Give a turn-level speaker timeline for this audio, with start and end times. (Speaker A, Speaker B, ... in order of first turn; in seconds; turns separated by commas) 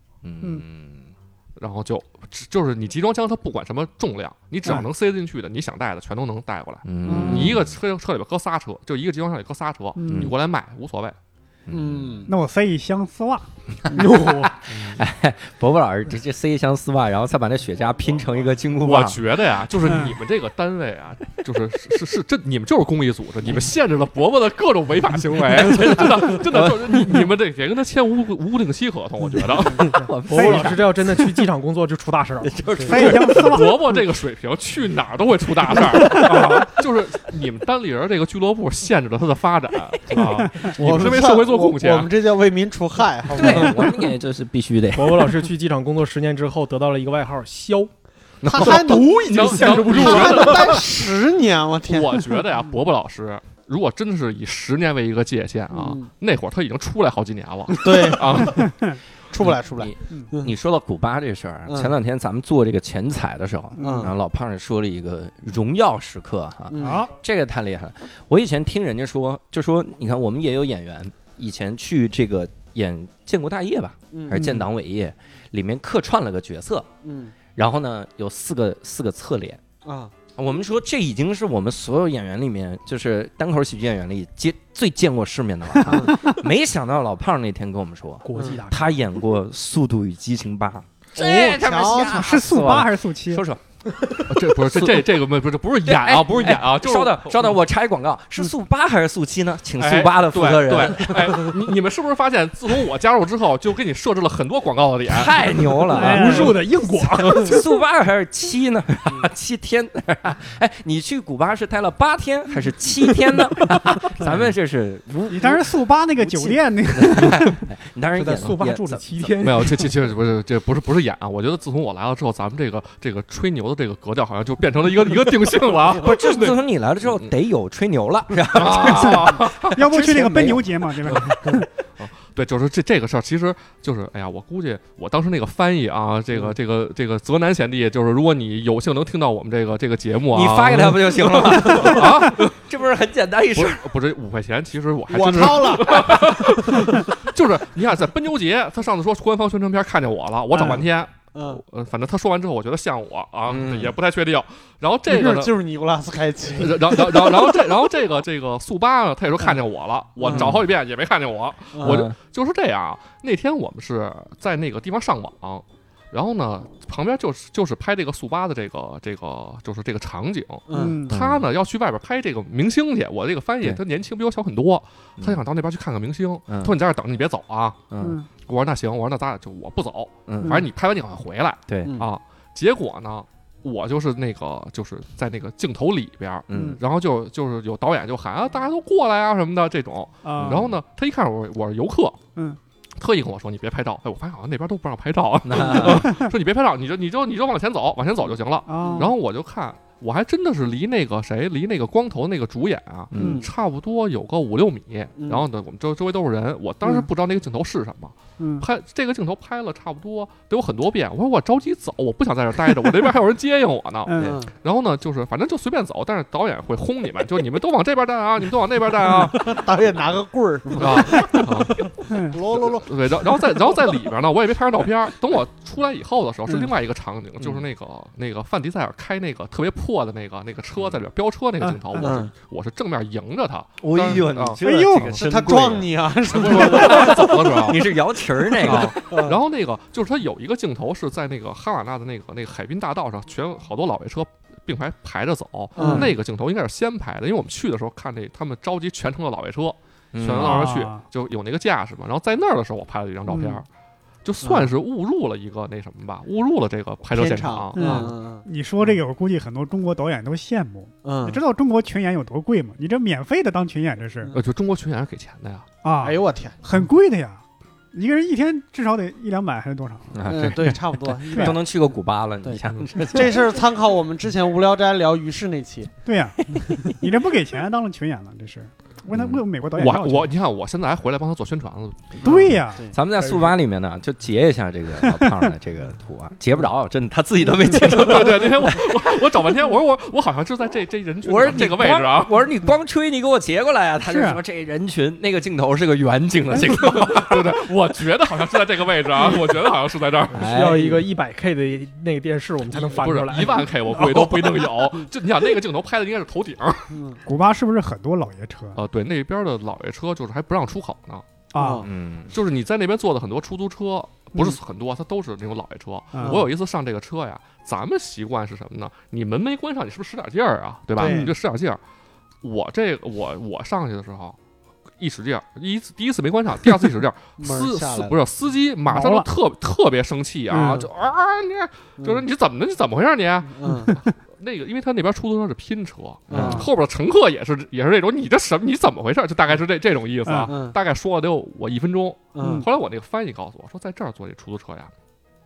Speaker A: 0.2-1.1, Speaker B: 1.6-11.2, Speaker A: 6.8-7.8, Speaker C: 7.0-7.6, Speaker C: 9.9-10.3, Speaker A: 10.1-10.3, Speaker A: 11.7-12.2, Speaker D: 11.7-12.3, Speaker C: 12.3-14.0, Speaker A: 13.8-19.4, Speaker E: 13.9-14.6, Speaker B: 18.8-29.9, Speaker C: 19.8-20.1, Speaker A: 25.3-27.3, Speaker A: 29.4-31.1, Speaker E: 29.9-32.6, Speaker C: 30.3-30.7, Speaker A: 32.4-33.7, Speaker C: 32.8-34.0, Speaker B: 33.0-42.1, Speaker A: 35.8-36.6, Speaker C: 40.2-40.7, Speaker D: 40.7-44.0, Speaker A: 43.3-45.4, Speaker E: 44.9-47.9, Speaker B: 48.4-50.9, Speaker D: 48.4-52.3, Speaker E: 48.5-50.8, Speaker B: 51.9-58.7, Speaker D: 55.7-56.1, Speaker D: 57.7-58.7, Speaker C: 58.4-59.0, Speaker D: 59.3-60.5, Speaker A: 59.4-76.9, Speaker D: 61.7-61.9, Speaker C: 63.8-64.1, Speaker D: 63.8-64.1, Speaker D: 66.7-67.0, Speaker C: 66.8-67.1, Speaker D: 74.1-74.4, Speaker C: 74.3-74.7, Speaker D: 77.0-77.3, Speaker A: 77.5-79.6, Speaker D: 79.8-80.1, Speaker A: 80.3-93.6, Speaker D: 85.9-86.2, Speaker C: 86.1-86.4, Speaker E: 88.2-88.8, Speaker D: 88.3-88.6, Speaker D: 91.2-92.4, Speaker C: 92.0-93.4, Speaker E: 93.9-94.3, Speaker B: 94.3-97.5, Speaker A: 94.6-95.1, Speaker A: 95.8-101.5, Speaker B: 99.8-105.5, Speaker A: 105.1-106.6, Speaker C: 105.9-106.6, Speaker E: 106.0-107.6, Speaker A: 107.2-115.6, Speaker C: 115.3-117.7, Speaker A: 116.2-119.3, Speaker E: 118.1-119.9, Speaker B: 119.4-127.3, Speaker A: 125.9-131.2, Speaker B: 128.5-129.8, Speaker C: 128.8-131.7, Speaker B: 131.1-142.6, Speaker A: 140.3-143.9, Speaker B: 143.5-155.6, Speaker D: 145.1-146.9, Speaker D: 150.5-150.8, Speaker D: 151.3-151.6, Speaker A: 153.5-153.9, Speaker D: 155.1-157.6, Speaker B: 156.6-177.8, Speaker D: 160.2-160.5, Speaker A: 160.3-160.7, Speaker D: 161.7-162.0, Speaker A: 161.8-162.2, Speaker D: 170.7-171.0, Speaker C: 170.7-171.1, Speaker A: 171.1-171.4, Speaker A: 175.2-175.4, Speaker A: 176.5-176.7, Speaker A: 177.9-178.2, Speaker C: 178.0-178.3, Speaker B: 178.4-192.2, Speaker A: 180.3-180.6, Speaker C: 180.4-180.6, Speaker A: 181.7-182.0, Speaker A: 186.5-186.8, Speaker C: 186.5-186.8, Speaker C: 190.2-190.7, Speaker A: 190.4-190.8, Speaker B: 193.0-219.6, Speaker A: 195.4-196.2, Speaker C: 195.8-196.3, Speaker C: 198.7-199.1, Speaker D: 198.8-199.1, Speaker A: 203.1-203.4, Speaker D: 203.2-203.5, Speaker D: 205.2-205.4, Speaker C: 208.4-208.7, Speaker C: 214.1-214.4, Speaker D: 214.2-214.5, Speaker D: 219.1-223.7, Speaker B: 220.8-221.8, Speaker C: 222.0-222.4, Speaker B: 222.6-237.9, Speaker C: 231.7-232.0, Speaker D: 231.9-232.3, Speaker A: 233.8-235.8, Speaker C: 234.6-235.2, Speaker D: 235.1-237.7, Speaker A: 236.4-239.0, Speaker B: 238.6-253.7, Speaker D: 238.6-239.4, Speaker D: 245.8-246.1, Speaker A: 245.8-246.1, Speaker A: 250.1-250.7, Speaker C: 250.3-251.0, Speaker B: 254.2-258.1, Speaker D: 254.4-254.7, Speaker D: 257.1-258.4, Speaker C: 257.7-264.3, Speaker D: 261.0-261.4, Speaker B: 264.3-265.7, Speaker C: 265.8-267.4, Speaker D: 266.0-266.6, Speaker C: 267.9-270.3, Speaker A: 270.1-273.5, Speaker D: 270.3-271.8, Speaker C: 271.3-271.6, Speaker D: 272.4-275.9, Speaker C: 276.0-280.3, Speaker A: 276.5-276.9, Speaker A: 279.1-279.4, Speaker B: 279.8-282.1, Speaker D: 282.2-282.9, Speaker C: 282.2-282.9, Speaker A: 282.9-289.4, Speaker C: 285.0-285.5, Speaker B: 287.8-292.4, Speaker A: 291.2-297.6, Speaker C: 294.0-294.4, Speaker B: 296.6-300.4, Speaker A: 300.3-301.0, Speaker E: 300.4-304.5, Speaker B: 302.7-306.9, Speaker D: 306.9-307.2, Speaker C: 307.2-308.8, Speaker B: 308.7-311.3, Speaker C: 311.5-311.8, Speaker D: 311.6-311.9, Speaker A: 311.8-312.4, Speaker B: 312.3-321.8, Speaker C: 316.1-316.4, Speaker D: 321.0-321.3, Speaker C: 321.0-321.3, Speaker B: 322.4-324.4, Speaker B: 325.0-344.9, Speaker D: 327.4-328.1, Speaker C: 328.9-329.3, Speaker D: 330.5-330.9, Speaker C: 330.5-330.8, Speaker D: 332.0-332.2, Speaker D: 333.5-333.9, Speaker D: 336.3-336.7, Speaker A: 336.3-336.7, Speaker C: 336.3-336.7, Speaker C: 340.2-340.5, Speaker D: 340.5-340.8, Speaker D: 342.4-342.7, Speaker C: 342.4-342.7